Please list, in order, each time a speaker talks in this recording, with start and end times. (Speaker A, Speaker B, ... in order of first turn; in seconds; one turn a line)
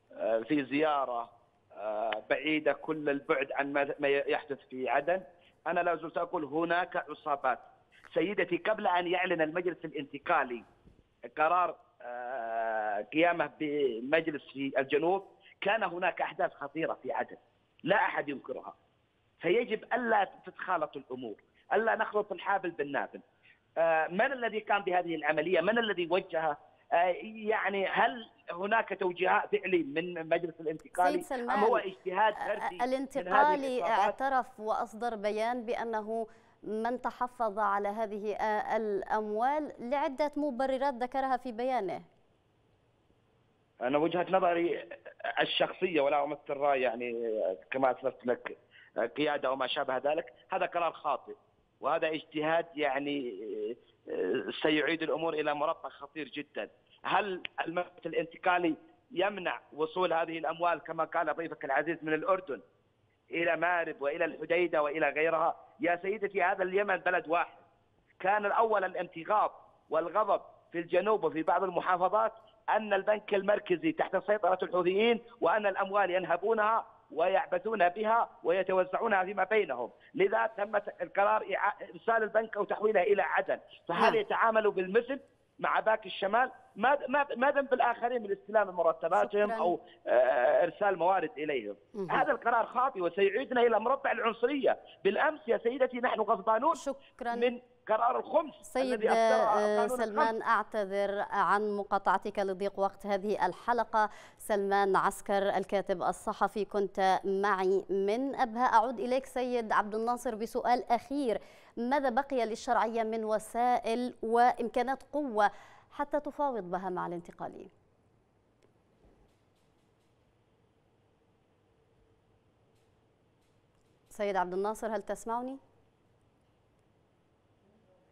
Speaker A: 0.2-10.7
Speaker A: 11.3-18.7
Speaker A: 19.4-23.2
Speaker A: 23.8-34.1
Speaker B: 31.0-31.8
Speaker B: 32.6-42.1
Speaker A: 43.8-62.6
Speaker A: 63.3-67.6
Speaker A: 68.2-96.8
Speaker B: 89.2-89.8
Speaker B: 92.0-92.2
Speaker B: 96.7-97.5
Speaker A: 97.3-100.3
Speaker B: 98.7-117.7
Speaker B: 124.1-125.6